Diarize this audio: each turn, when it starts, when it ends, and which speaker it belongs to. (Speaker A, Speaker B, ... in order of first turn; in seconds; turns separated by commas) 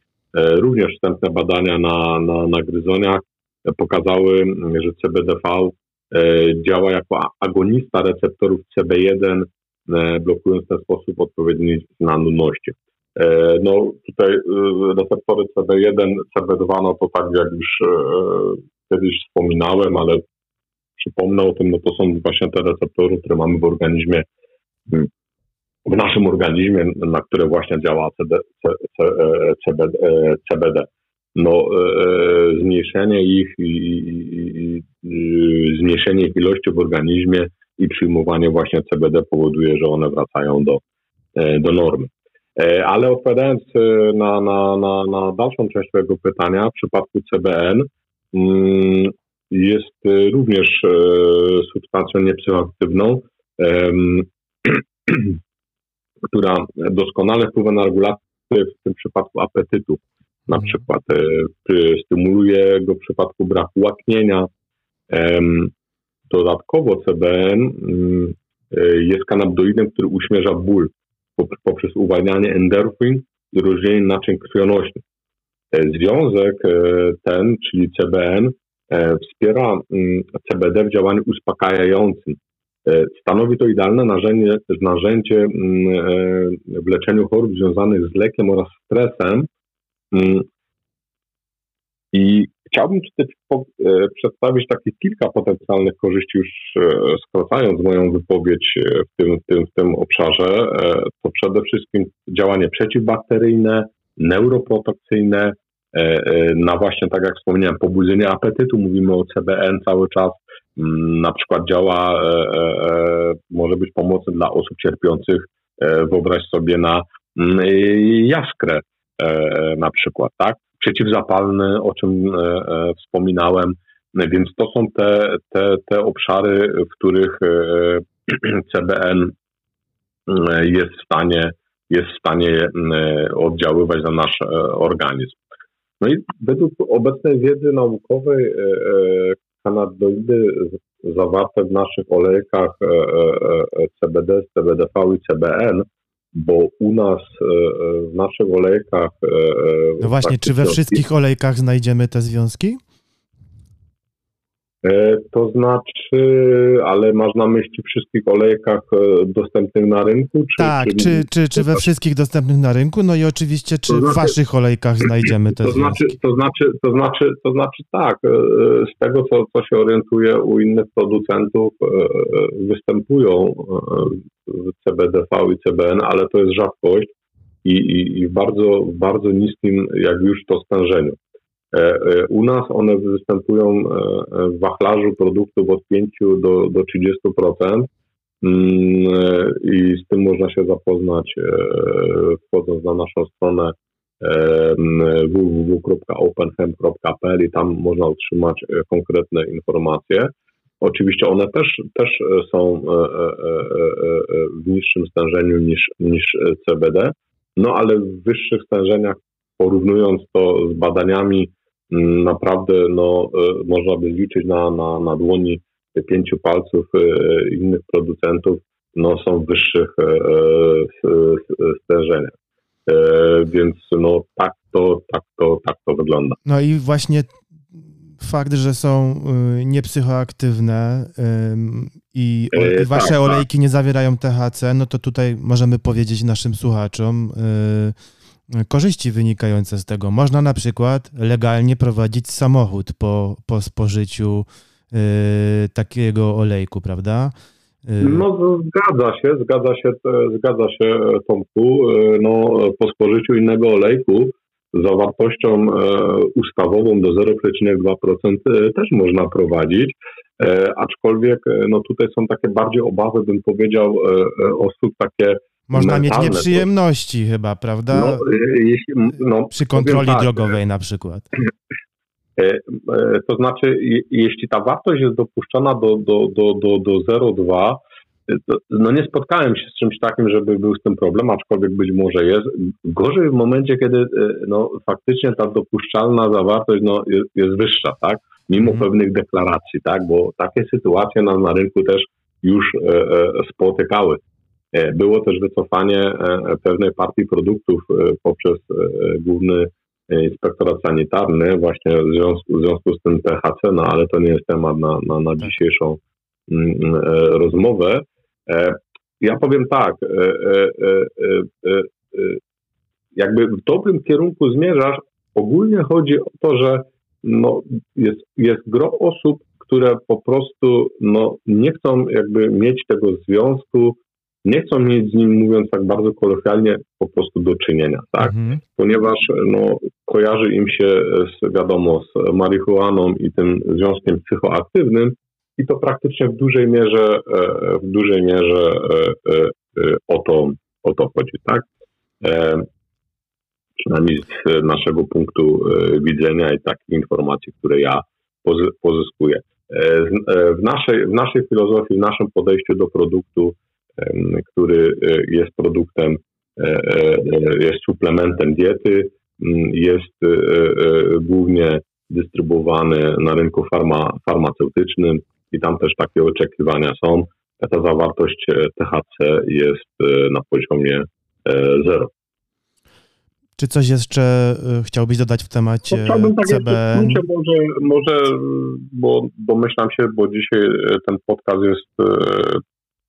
Speaker A: 0.3-20.2, Speaker A: 21.0-24.2, Speaker A: 25.9-40.8, Speaker A: 41.4-55.4, Speaker A: 56.3-64.5, Speaker A: 65.1-65.7, Speaker A: 66.3-75.0, Speaker A: 75.7-89.5, Speaker A: 90.1-90.5, Speaker A: 92.1-129.3, Speaker A: 130.3-135.4, Speaker A: 136.0-151.0, Speaker B: 150.0-152.8, Speaker A: 154.8-161.8, Speaker B: 160.6-166.2, Speaker A: 163.9-164.3, Speaker A: 165.5-177.1, Speaker A: 177.6-181.2, Speaker A: 181.7-187.9, Speaker A: 188.4-222.3, Speaker A: 222.8-226.4, Speaker B: 226.4-227.3, Speaker B: 228.2-237.9, Speaker A: 232.5-233.4, Speaker B: 238.5-247.3, Speaker B: 247.8-248.2, Speaker A: 248.0-266.7, Speaker B: 265.7-268.3, Speaker A: 267.9-270.5, Speaker B: 269.5-271.3, Speaker A: 272.4-294.2, Speaker A: 294.7-312.4, Speaker A: 313.1-341.7, Speaker B: 328.3-328.6, Speaker A: 342.2-342.7, Speaker A: 343.8-372.1, Speaker B: 373.6-377.2, Speaker A: 375.9-382.6